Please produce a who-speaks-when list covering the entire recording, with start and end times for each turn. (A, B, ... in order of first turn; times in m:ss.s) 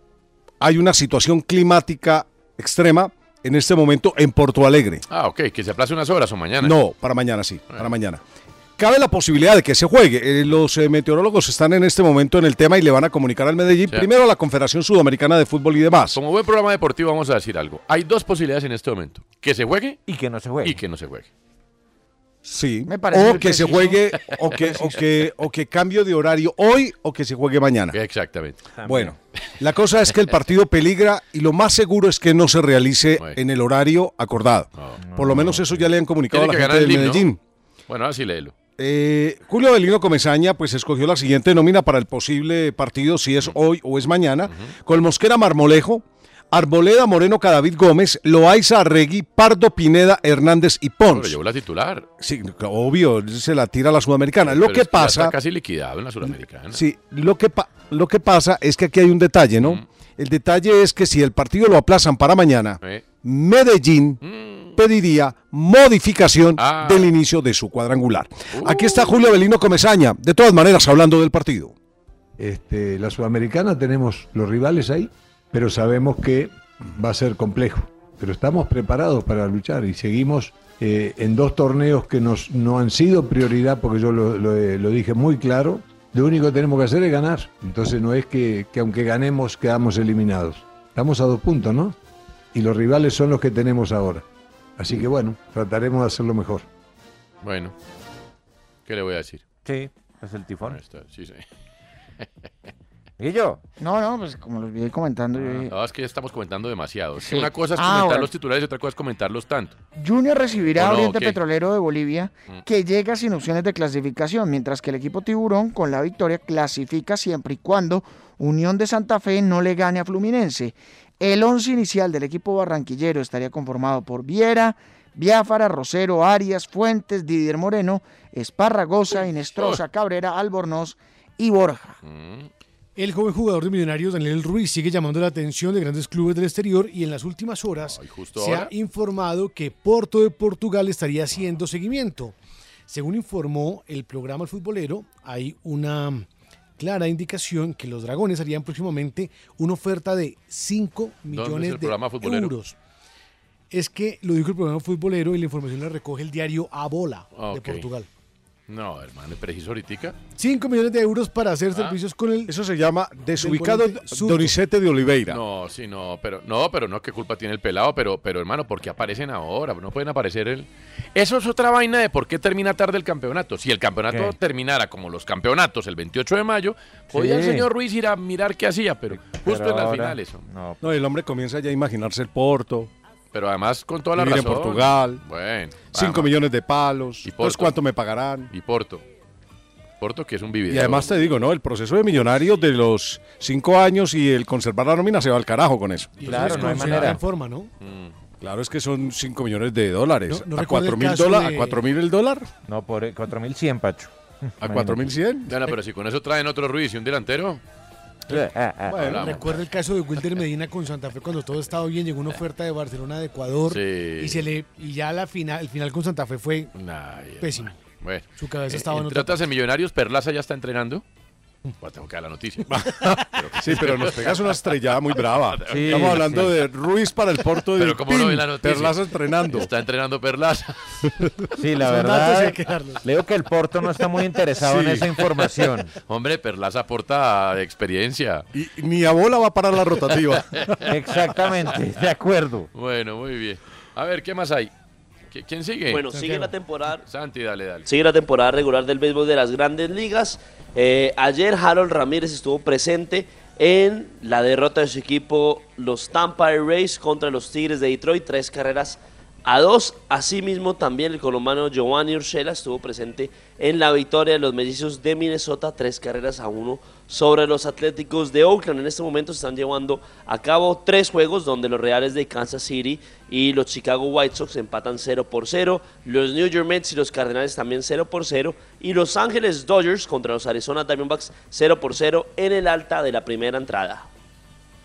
0:00.6-0:05.0 A
0:05.1-0:06.8 B
0:06.6-0:08.2 A
0:08.8-0:16.2 A
0:16.1-0:20.0 B
0:20.1-0:20.8 C
0:20.6-0:21.3 B
0:22.4-0:28.0 A
0:22.9-0:24.0 D
0:27.9-0:28.6 B
0:28.8-0:29.2 C
0:28.8-0:37.4 A
0:34.8-0:35.0 B
0:35.0-0:35.9 C
0:36.3-0:37.3 B
0:37.9-0:38.5 B
0:38.8-0:51.4 A
0:44.5-0:44.7 B
0:51.1-0:52.1 B
0:52.2-0:55.4 A
0:54.5-0:56.8 B
0:56.3-1:04.2 A
1:04.2-1:04.8 B
1:04.8-1:11.7 A
1:06.6-1:07.1 B
1:08.5-1:09.2 B
1:12.4-1:32.0 E
1:32.5-1:34.2 E
1:34.8-1:36.7 E
1:37.4-1:37.7 B
1:38.9-1:39.4 B
1:39.6-1:40.8 C
1:40.6-1:41.4 B
1:43.2-1:43.6 C
1:43.8-1:45.7 D
1:45.7-1:49.8 B
1:47.2-1:48.3 D
1:50.0-2:12.0 D
1:50.8-1:51.4 B
2:12.0-2:12.5 B
2:13.0-2:22.4 F
2:17.8-2:18.7 B
2:22.9-2:26.3 F
2:26.8-2:32.8 F
2:31.3-2:32.6 B
2:33.7-2:38.1 F
2:37.4-2:37.9 B
2:38.7-2:40.2 B
2:40.4-2:42.5 F
2:42.5-2:45.4 A
2:43.4-2:44.6 F
2:45.3-3:00.4 B
2:54.1-2:54.4 C
2:57.1-2:57.7 C
2:59.1-3:00.8 C
3:00.8-3:02.9 A
3:03.3-3:06.3 B
3:04.2-3:05.2 A
3:05.9-3:08.5 A
3:07.2-3:07.8 B
3:08.5-3:09.0 B
3:10.0-3:11.1 B
3:10.7-3:16.4 A
3:16.2-3:17.7 F
3:16.2-3:17.2 C
3:16.3-3:17.2 B
3:17.8-3:18.1 B
3:18.4-3:22.5 A
3:20.3-3:21.8 F
3:22.7-3:25.1 C
3:24.6-3:25.6 A
3:25.5-3:27.6 B
3:28.3-3:29.3 C
3:28.9-3:29.3 A
3:28.9-3:29.6 B
3:29.1-3:36.7 F
3:33.7-3:34.5 B
3:36.8-3:41.0 B
3:37.4-3:37.8 F
3:38.4-3:39.4 F
3:41.8-3:44.6 B
3:42.7-3:49.7 A
3:45.5-3:46.5 B
3:45.7-3:46.6 C
3:47.8-3:49.0 B
3:49.5-3:50.7 B
3:51.6-3:55.9 C
3:51.8-3:53.0 F
3:54.6-3:55.1 A
3:56.1-3:58.5 B
3:58.5-4:00.8 A
4:00.9-4:02.7 C
4:02.7-4:04.7 B
4:05.3-4:06.1 B
4:05.9-4:07.0 G
4:06.1-4:06.5 F
4:07.0-4:07.9 B
4:07.9-4:44.0 G